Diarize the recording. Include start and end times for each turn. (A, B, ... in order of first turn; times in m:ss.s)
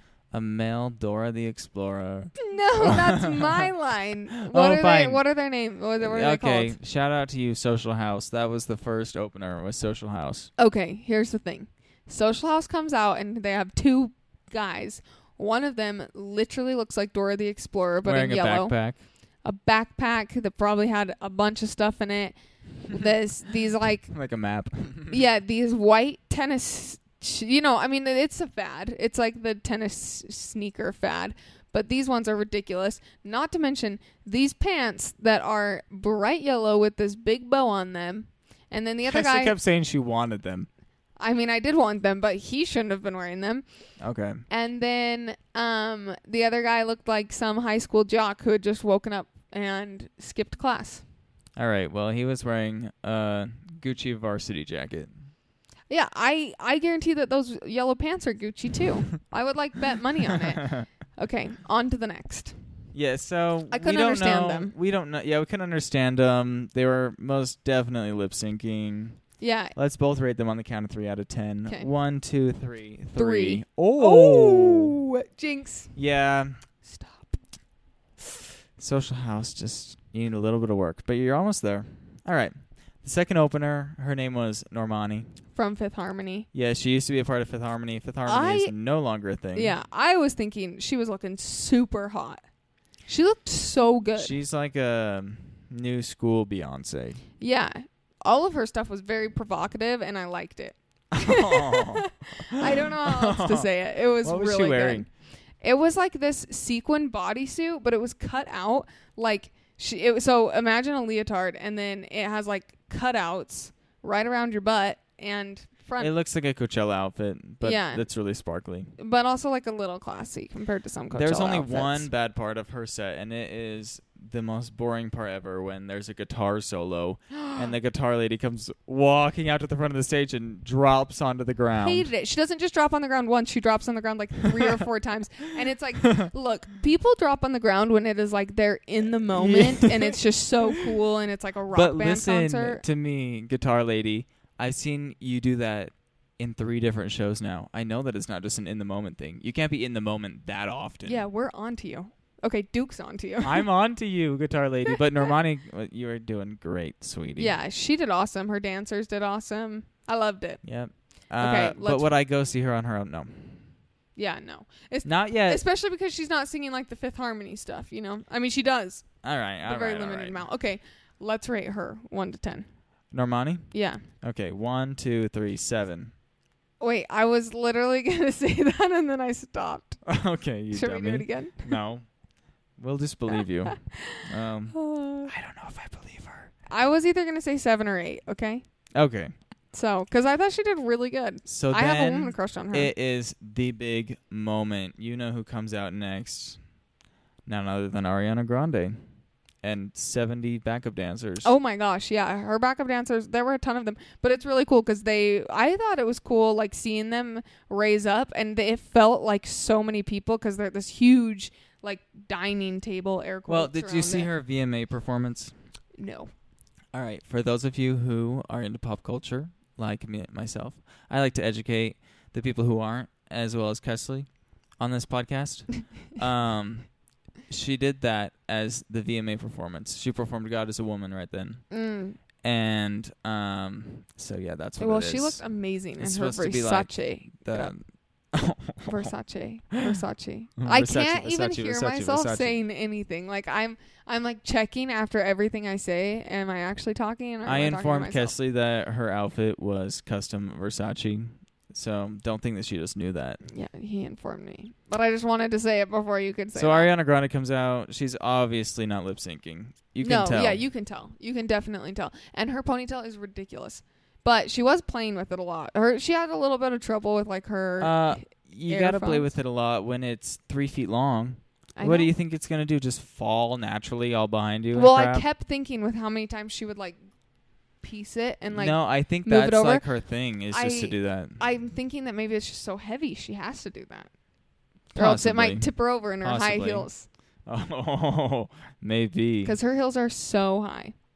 0:00.3-0:03.7 A
0:02.4-0:06.8 B
0:04.4-0:05.2 A
0:06.0-0:10.5 A
0:10.6-0:18.8 B
0:18.0-0:19.0 A
0:19.4-0:24.1 B
0:24.1-0:25.2 A
0:25.1-0:39.6 B
0:39.1-0:40.7 A
0:41.2-0:43.6 B
0:44.0-0:44.4 A
0:44.5-0:51.0 B
0:51.6-0:55.1 A
0:55.9-1:02.6 B
1:00.3-1:00.9 A
1:02.9-1:09.2 A
1:03.7-1:04.8 B
1:09.4-1:09.8 B
1:09.8-1:15.0 A
1:13.2-1:15.9 B
1:16.0-1:16.6 A
1:16.8-1:17.4 B
1:18.8-1:25.3 A
1:25.6-1:26.5 B
1:26.5-1:29.8 A
1:28.3-1:28.7 B
1:29.6-1:32.4 B
1:33.1-1:34.4 B
1:34.2-1:37.2 A
1:37.4-1:45.1 B
1:41.1-1:43.7 A
1:44.2-1:45.1 A
1:45.6-1:56.1 B
1:56.0-1:58.9 A
1:57.6-1:58.0 B
1:59.0-2:02.1 B
2:01.2-2:12.1 A
2:07.4-2:07.6 B
2:11.8-2:22.8 B
2:19.3-2:20.2 A
2:21.7-2:31.2 A
2:31.1-2:33.7 B
2:33.4-2:37.5 A
2:37.4-2:40.6 B
2:40.6-2:43.7 A
2:41.4-2:42.1 B
2:44.2-2:49.1 B
2:45.0-2:45.6 A
2:49.2-2:50.4 A
2:49.6-2:52.7 B
2:53.1-2:56.1 A
2:53.7-2:54.0 B
2:56.8-3:00.0 B
3:00.0-3:02.1 A
3:00.7-3:01.8 B
3:02.8-3:06.5 A
3:03.7-3:05.3 B
3:06.7-3:08.6 B
3:09.0-3:09.3 A
3:09.7-3:12.9 B
3:11.5-3:16.6 A
3:17.5-3:19.0 A
3:19.6-3:21.5 A
3:21.4-3:34.3 B
3:33.5-3:35.5 A
3:36.0-3:36.3 B
3:36.9-3:44.3 A
3:44.8-3:46.9 A
3:47.5-3:51.6 A
3:51.7-3:52.2 B
3:52.4-3:55.4 A
3:54.8-3:57.7 B
3:56.0-3:59.1 A
3:58.9-4:08.4 B
4:00.6-4:02.6 A
4:07.4-4:13.4 A
4:13.5-4:16.9 B
4:16.6-4:20.6 A
4:20.0-4:29.3 B
4:27.8-4:35.2 A
4:31.8-4:32.1 B
4:34.7-4:37.0 B
4:37.8-4:39.9 B
4:38.5-4:41.4 A
4:40.5-4:44.1 B
4:44.9-4:46.9 A
4:45.0-4:47.1 B
4:47.5-4:49.6 A
4:49.4-4:50.9 B